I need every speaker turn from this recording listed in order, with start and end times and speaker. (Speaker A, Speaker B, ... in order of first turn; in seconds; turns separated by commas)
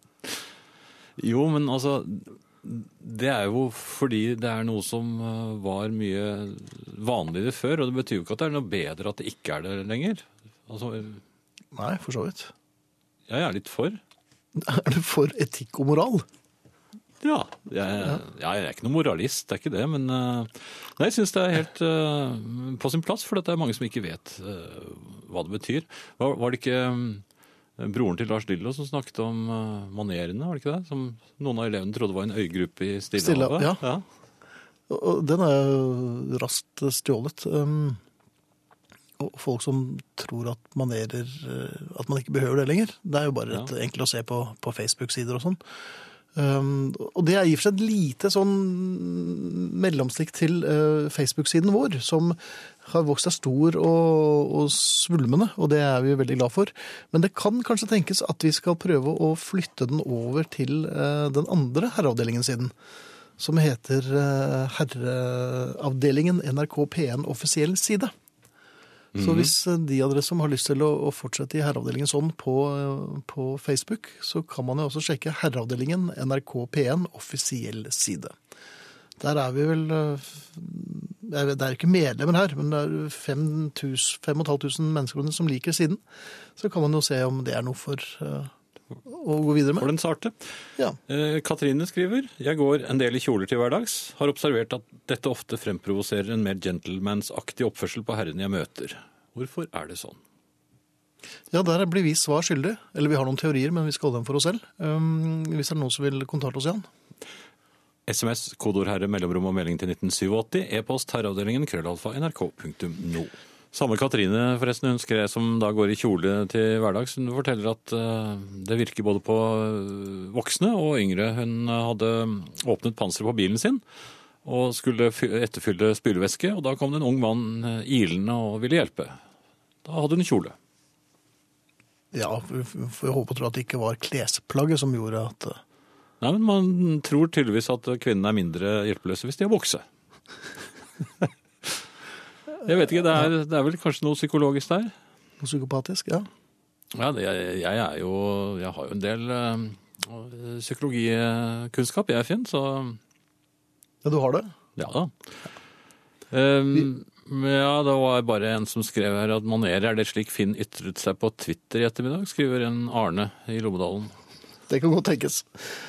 Speaker A: 1.2-11.2, Speaker B: 11.7-12.5, Speaker A: 13.3-14.0, Speaker B: 14.6-16.2, Speaker A: 17.2-27.2, Speaker A: 27.8-34.0, Speaker B: 33.2-33.8, Speaker B: 34.9-38.0, Speaker B: 39.2-45.6, Speaker B: 46.3-62.7, Speaker B: 63.4-68.1, Speaker A: 69.1-69.5, Speaker B: 69.2-78.3, Speaker B: 79.2-86.0, Speaker B: 86.6-88.5, Speaker B: 89.0-89.9, Speaker A: 89.8-90.4, Speaker A: 91.1-100.2, Speaker B: 101.5-106.8, Speaker A: 108.0-123.8, Speaker A: 124.4-129.2, Speaker A: 129.8-130.5, Speaker B: 132.1-135.6, Speaker A: 136.2-139.8, Speaker A: 141.2-141.7, Speaker A: 142.6-144.9, Speaker B: 145.4-146.3, Speaker A: 146.9-153.0, Speaker B: 154.0-154.5, Speaker A: 154.8-155.1, Speaker A: 156.3-164.1, Speaker B: 164.7-165.7